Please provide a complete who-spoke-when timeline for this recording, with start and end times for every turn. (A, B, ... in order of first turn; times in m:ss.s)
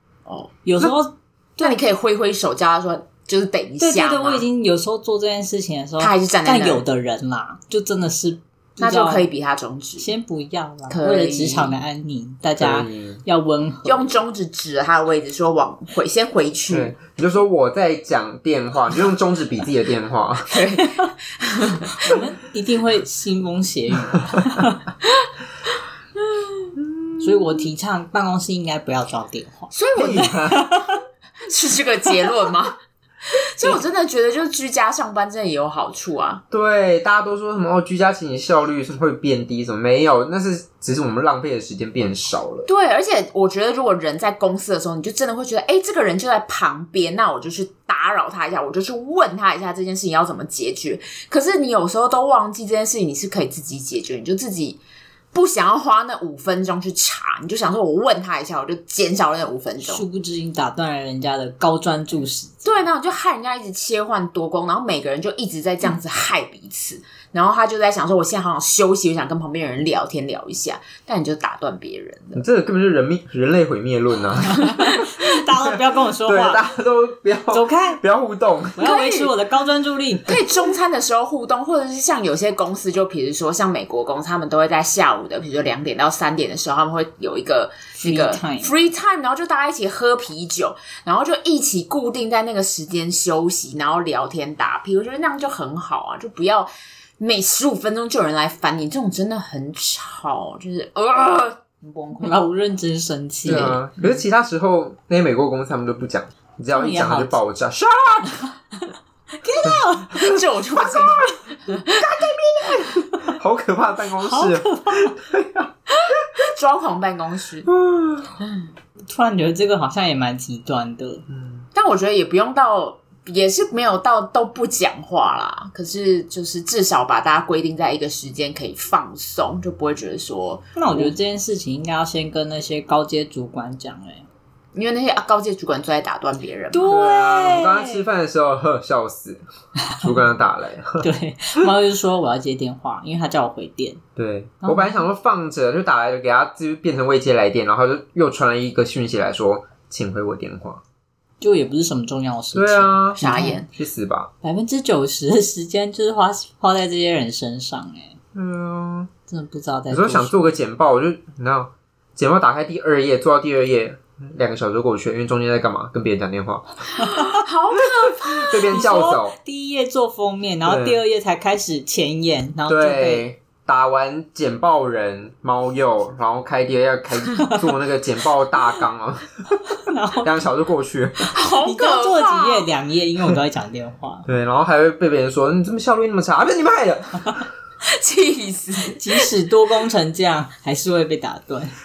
0:00.3-0:00.5 A
0:00.6-0:01.8 B
0:01.6-0:04.5 A
0:03.8-0:09.3 B
0:06.0-0:06.8 A
0:08.8-0:10.1 A
0:10.0-0:14.1 B
0:10.9-0:11.8 A
0:12.6-0:13.2 C
0:13.8-0:16.9 A
0:16.7-0:20.6 C
0:20.5-0:22.1 A
0:21.9-0:24.8 B
0:26.8-0:27.5 C
0:27.2-0:31.0 B
0:29.7-0:30.4 A
0:30.0-0:30.7 C
0:31.5-0:32.8 A
0:33.3-0:36.4 A
0:36.5-0:42.7 C
0:42.7-0:54.8 A
0:55.3-1:00.0 A
0:59.8-1:02.9 B
1:02.6-1:12.4 A
1:12.4-1:15.0 C
1:14.5-1:16.6 B
1:15.6-1:18.9 C
1:17.5-1:18.0 B
1:18.8-1:20.4 B
1:18.8-1:19.3 A
1:20.3-1:42.4 A
1:28.0-1:28.7 B
1:42.2-1:43.8 B
1:43.4-1:48.4 C
1:43.5-1:43.8 A
1:46.7-1:47.4 B
1:49.4-1:50.2 B
1:49.6-1:51.3 C
1:50.1-1:52.2 A
1:51.9-1:55.7 C
1:54.2-1:55.2 B
1:55.9-1:57.7 A
1:57.7-1:58.4 C
1:58.4-1:58.7 A
1:59.1-2:01.2 B
2:01.3-2:01.6 C
2:01.8-2:11.1 A
2:10.8-2:14.3 B
2:14.7-2:17.0 A
2:16.7-2:18.0 B
2:16.9-2:19.5 C
2:20.0-2:21.1 C
2:21.0-2:24.0 B
2:24.2-2:30.8 C
2:24.6-2:25.0 B
2:31.4-2:33.6 B
2:32.5-2:34.3 C
2:33.2-2:33.7 A
2:34.4-2:38.2 B
2:38.3-2:39.1 C
2:39.3-2:40.4 B
2:39.9-2:46.7 C
2:47.0-2:48.8 A
2:47.0-2:47.4 B
2:47.8-2:49.4 C
2:48.7-2:53.2 B
2:50.7-2:51.0 C
2:52.7-2:59.3 C
2:59.8-3:00.3 B
3:00.2-3:01.3 C
3:01.3-3:02.7 A
3:01.6-3:04.3 B
3:04.3-3:07.4 C
3:07.8-3:09.3 A
3:08.8-3:11.7 B